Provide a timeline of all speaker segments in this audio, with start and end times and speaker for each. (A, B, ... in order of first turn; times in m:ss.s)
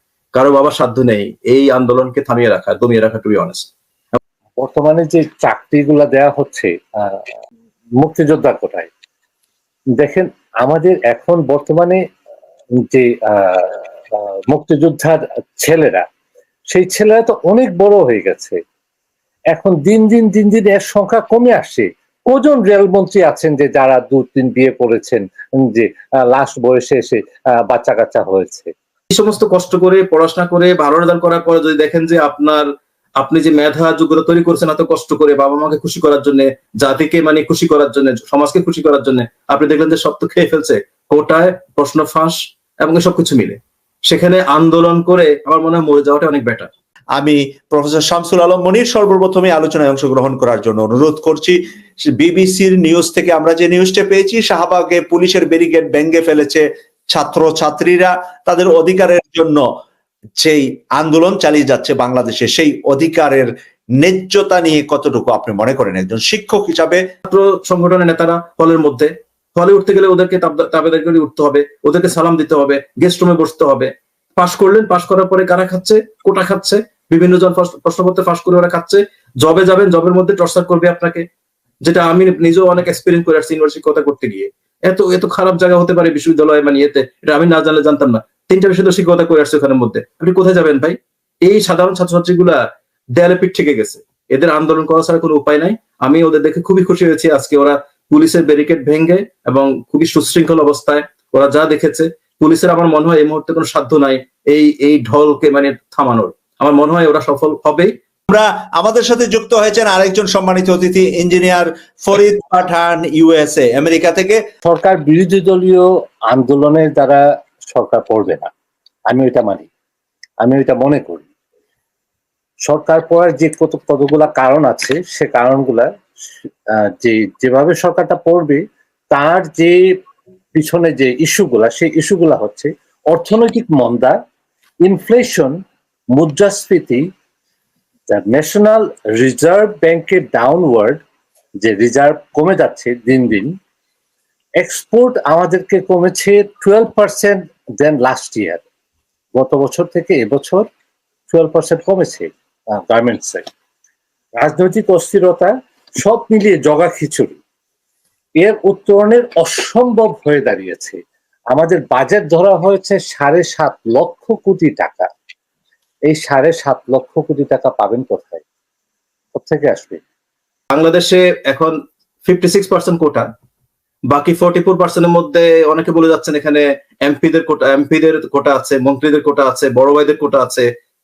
0:00.4-0:03.7 A
0:04.6-0:07.3 B
0:08.0-0:08.9 B
0:10.0-0:12.0 B
0:12.8-0:16.0 B
0:16.7-0:18.6 B
0:19.5-0:28.7 B
0:29.1-0:32.7 A
0:33.2-0:46.7 A
0:47.2-0:51.6 C
0:52.2-0:59.7 C
1:00.4-1:07.0 C
1:07.2-1:21.2 A
1:21.8-1:32.6 A
1:33.2-1:47.9 A
1:48.3-1:54.4 C
1:54.6-1:58.5 B
1:59.1-1:59.7 B
2:00.4-2:01.3 B
2:02.7-2:05.9 B
2:06.4-2:09.9 B
2:10.6-2:14.2 B
2:14.8-2:15.6 B
2:16.1-2:17.1 B
2:18.1-2:21.0 B
2:21.6-2:23.5 B
2:24.6-2:28.6 B
2:29.4-2:30.7 B
2:31.3-2:33.5 B
2:34.4-2:37.4 B
2:38.4-2:41.0 B
2:41.5-2:45.1 B
2:46.1-2:48.4 B
2:49.4-2:50.0 B
2:50.7-2:53.3 A
2:54.1-3:00.7 A